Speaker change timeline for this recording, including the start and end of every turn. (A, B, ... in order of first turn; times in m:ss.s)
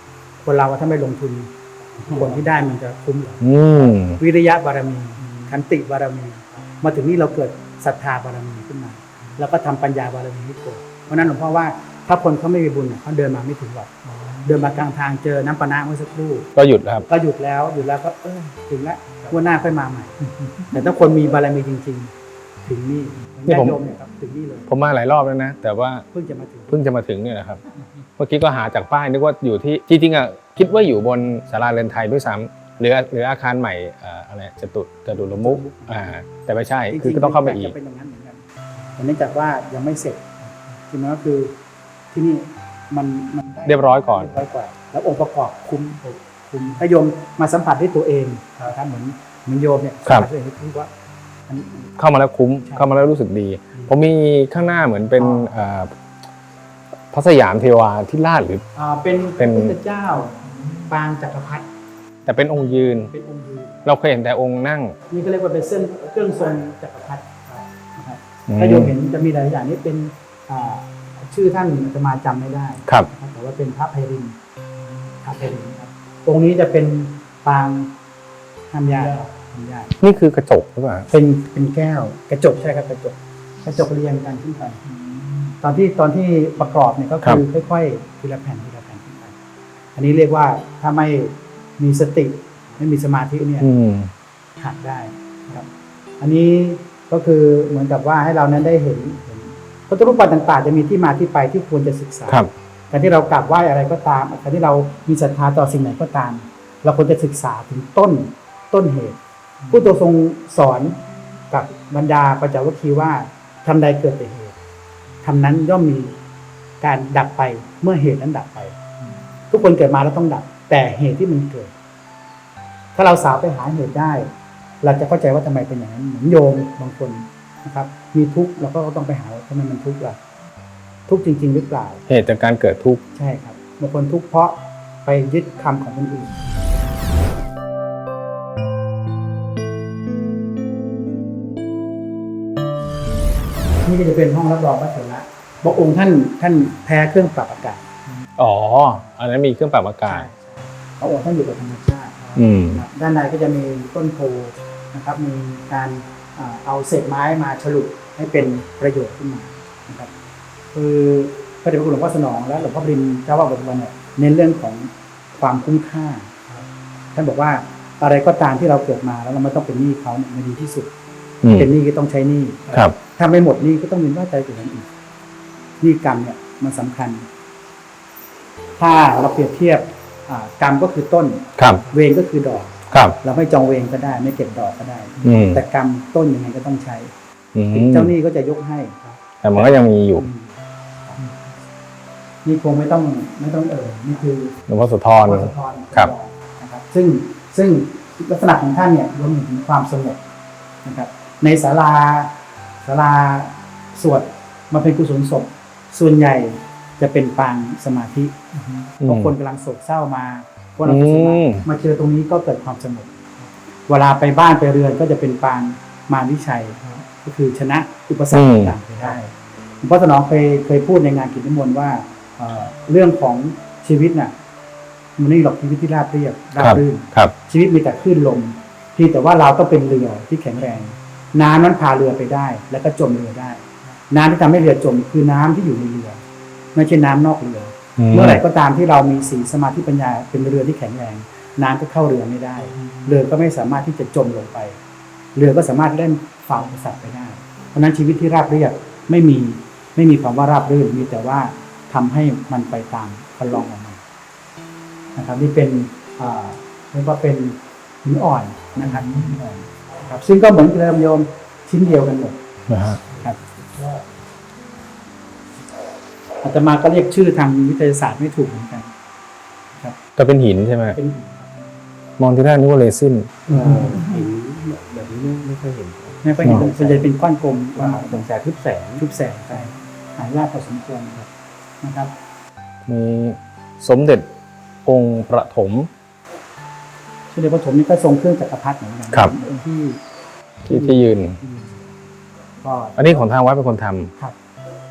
0:00.4-0:16.5 A
0:03.4-0:04.2 B
0:16.6-0:17.1 B
0:17.1-0:22.1 A
0:22.6-0:24.7 A
0:23.5-0:23.8 B
0:24.7-0:26.0 B
0:26.1-0:26.8 A
0:26.7-0:27.6 B
0:28.2-0:37.7 B
0:35.3-0:36.1 A
0:36.9-0:41.6 A
0:42.1-0:50.9 A
0:43.7-0:44.4 B
0:51.5-0:52.0 A
0:52.0-0:55.9 B
0:52.7-0:53.0 A
0:55.2-0:55.6 A
0:57.1-0:58.6 B
0:58.8-1:01.7 A
0:59.4-0:59.8 B
1:02.2-1:03.1 B
1:03.1-1:03.8 A
1:03.8-1:05.0 B
1:05.1-1:14.4 A
1:08.5-1:08.9 B
1:15.2-1:18.0 A
1:18.7-1:20.0 A
1:20.0-1:21.1 B
1:21.1-1:24.8 A
1:25.6-1:29.4 A
1:30.0-1:33.7 A
1:33.6-1:34.1 B
1:34.6-1:35.7 A
1:36.2-1:54.6 A
1:55.2-1:56.2 A
1:56.8-1:58.8 A
1:59.5-2:01.7 A
2:03.0-2:10.2 A
2:11.1-2:12.0 A
2:12.1-2:13.0 B
2:13.1-2:16.4 A
2:23.8-2:27.9 A
2:28.4-2:30.3 B
2:30.1-2:40.1 A
2:32.4-2:32.8 B
2:40.7-2:46.6 A
2:47.1-2:50.9 A
2:51.4-2:51.7 B
2:51.5-2:54.9 A
2:55.8-2:57.3 A
2:58.8-3:07.1 A
3:01.6-3:01.8 B
3:02.9-3:03.2 B
3:05.2-3:05.6 B
3:07.6-3:08.1 B
3:07.7-3:10.6 A
3:09.4-3:10.3 B
3:12.4-3:14.6 A
3:14.7-3:16.1 B
3:15.1-3:20.2 A
3:20.8-3:33.2 A
3:29.0-3:29.3 B
3:30.9-3:31.6 B
3:33.9-3:39.3 A
3:38.3-3:38.8 B
3:39.8-3:44.3 A
3:45.2-3:56.2 A
3:46.6-3:47.3 B
3:56.8-4:04.8 A
3:58.0-3:58.4 B
4:05.4-4:14.0 A
4:15.2-4:22.4 A
4:22.7-4:23.0 B
4:23.2-4:23.5 A
4:26.4-4:28.9 A
4:30.2-4:31.0 B
4:30.9-4:31.6 A
4:32.2-4:33.6 B
4:33.5-4:37.1 C
4:33.5-4:34.0 A
4:36.2-4:38.2 A
4:37.8-4:39.0 C
4:39.0-4:41.2 A
4:41.8-4:42.1 A
4:42.9-4:44.3 B
4:44.9-4:45.9 B
4:47.3-4:50.0 A
4:50.6-4:51.9 A
4:50.7-4:51.4 B
4:52.6-4:53.3 A
4:53.0-4:54.1 B